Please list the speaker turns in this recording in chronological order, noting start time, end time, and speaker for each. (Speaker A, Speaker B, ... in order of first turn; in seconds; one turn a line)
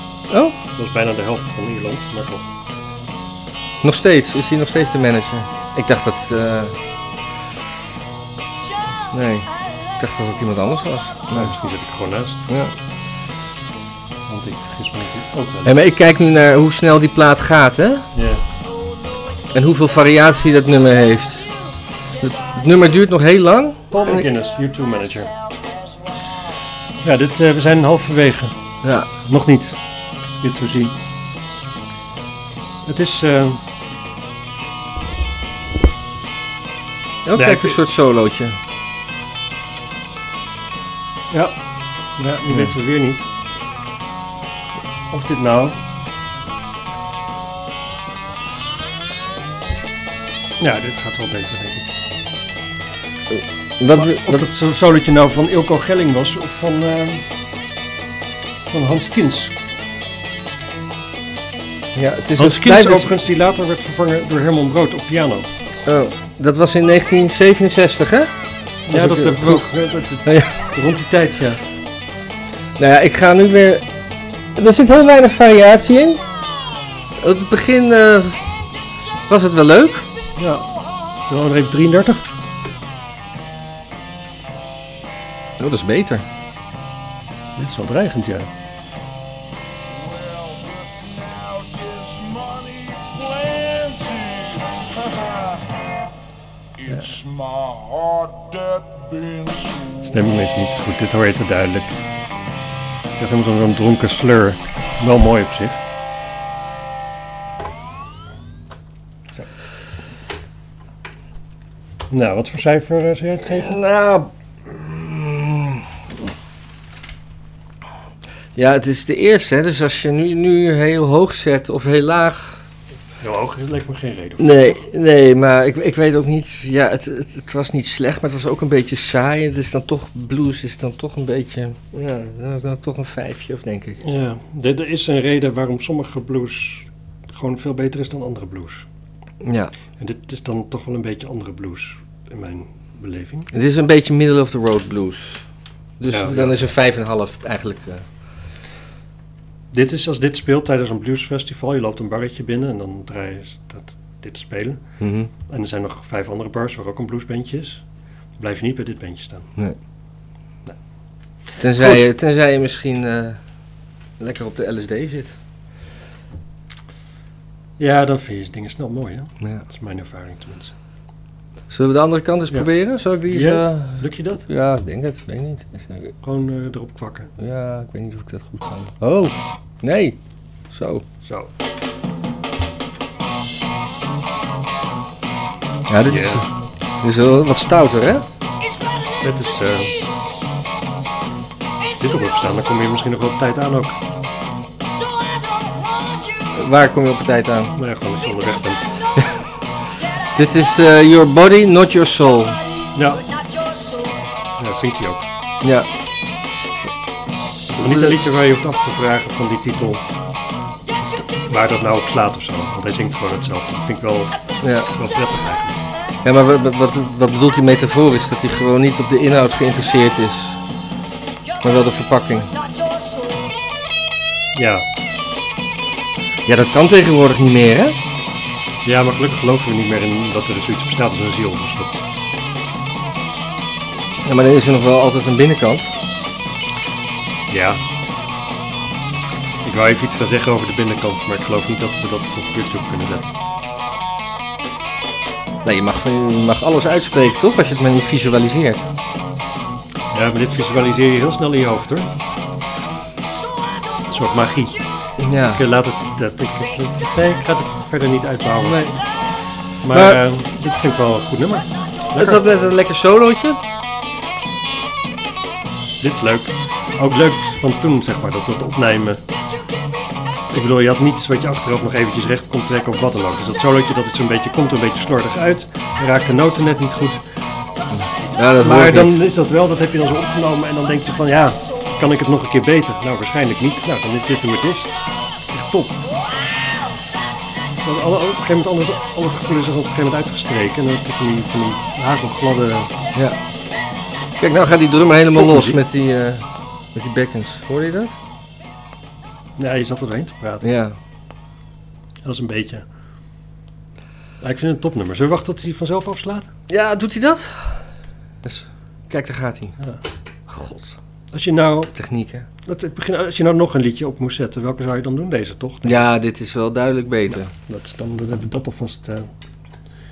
Speaker A: 0.3-0.6
Speaker B: 0.7-2.5
Speaker A: 3.8-6.8
Speaker A: 9.1-11.5
Speaker B: 11.3-12.5
Speaker B: 14.3-15.8
Speaker A: 15.7-18.1
Speaker B: 18.1-18.4
Speaker A: 19.5-21.5
Speaker A: 22.2-24.2
Speaker B: 23.9-25.3
Speaker B: 27.0-28.5
Speaker A: 28.8-29.1
Speaker B: 29.2-29.8
Speaker B: 30.3-30.9
Speaker B: 32.9-33.6
Speaker A: 37.2-38.6
Speaker B: 37.4-37.8
Speaker B: 42.2-43.3
Speaker B: 45.1-45.8
Speaker B: 50.6-51.9
Speaker A: 53.3-54.4
Speaker B: 54.0-57.2
Speaker B: 58.7-59.5
Speaker A: 62.0-63.1
Speaker B: 62.4-65.5
Speaker A: 65.8-68.3
Speaker B: 68.9-71.6
Speaker A: 68.9-69.7
Speaker A: 70.3-70.5
Speaker A: 72.8-73.8
Speaker A: 74.6-76.2
Speaker A: 77.2-78.4
Speaker A: 79.3-80.1
Speaker B: 80.4-80.7
Speaker B: 81.3-82.3
Speaker A: 85.6-86.2
Speaker B: 87.6-88.5
Speaker C: 90.5-90.7
Speaker C: 91.8-94.5
Speaker B: 96.9-97.3
Speaker C: 97.7-99.5
Speaker B: 100.0-102.0
Speaker B: 103.2-105.8
Speaker B: 112.1-113.8
Speaker A: 113.4-115.8
Speaker A: 118.5-122.6
Speaker B: 123.2-124.8
Speaker A: 124.4-134.0
Speaker B: 134.0-138.9
Speaker A: 139.4-139.7
Speaker B: 140.0-143.5
Speaker A: 143.5-145.4
Speaker A: 146.0-148.1
Speaker B: 146.1-146.7
Speaker B: 149.7-154.8
Speaker A: 155.0-155.3
Speaker B: 155.5-157.8
Speaker B: 158.4-159.5
Speaker A: 161.6-163.4
Speaker B: 161.6-162.0
Speaker A: 164.2-165.4
Speaker B: 167.8-170.8
Speaker A: 171.7-176.1
Speaker B: 173.2-174.5
Speaker B: 176.2-177.3
Speaker A: 177.4-180.2
Speaker A: 180.7-181.1
Speaker B: 181.2-181.5
Speaker A: 185.9-186.5
Speaker B: 186.1-186.5
Speaker A: 187.0-188.2
Speaker B: 189.2-189.9
Speaker B: 192.0-194.0
Speaker A: 196.5-197.7
Speaker B: 197.8-198.9
Speaker A: 200.3-202.6
Speaker B: 202.9-203.2
Speaker B: 204.6-205.3
Speaker A: 205.6-205.9
Speaker A: 207.7-208.2
Speaker B: 207.7-210.0
Speaker B: 211.5-214.4
Speaker A: 214.6-214.9
Speaker B: 214.9-215.8
Speaker A: 216.2-220.6
Speaker A: 221.6-222.6
Speaker B: 224.6-224.9
Speaker A: 226.5-228.0
Speaker B: 228.8-232.0
Speaker A: 234.2-235.9
Speaker B: 237.5-237.8
Speaker B: 239.6-243.3
Speaker A: 245.6-248.9
Speaker B: 250.1-252.1
Speaker B: 254.1-254.8
Speaker A: 255.2-255.6
Speaker B: 255.5-258.9
Speaker A: 258.6-258.9
Speaker B: 259.8-262.6
Speaker A: 259.9-260.2
Speaker A: 262.2-263.6
Speaker B: 266.0-269.2
Speaker B: 270.5-277.2
Speaker A: 277.9-279.2
Speaker B: 278.6-284.9
Speaker B: 285.5-286.0
Speaker B: 287.8-292.9
Speaker A: 294.4-298.1
Speaker B: 295.3-295.8
Speaker B: 299.6-300.7
Speaker A: 300.6-300.9
Speaker B: 302.2-302.8
Speaker B: 304.4-306.5
Speaker A: 306.7-307.9
Speaker A: 308.4-309.8
Speaker B: 310.6-311.9
Speaker A: 311.9-312.5
Speaker B: 312.6-316.0
Speaker A: 315.8-317.5
Speaker B: 317.3-319.3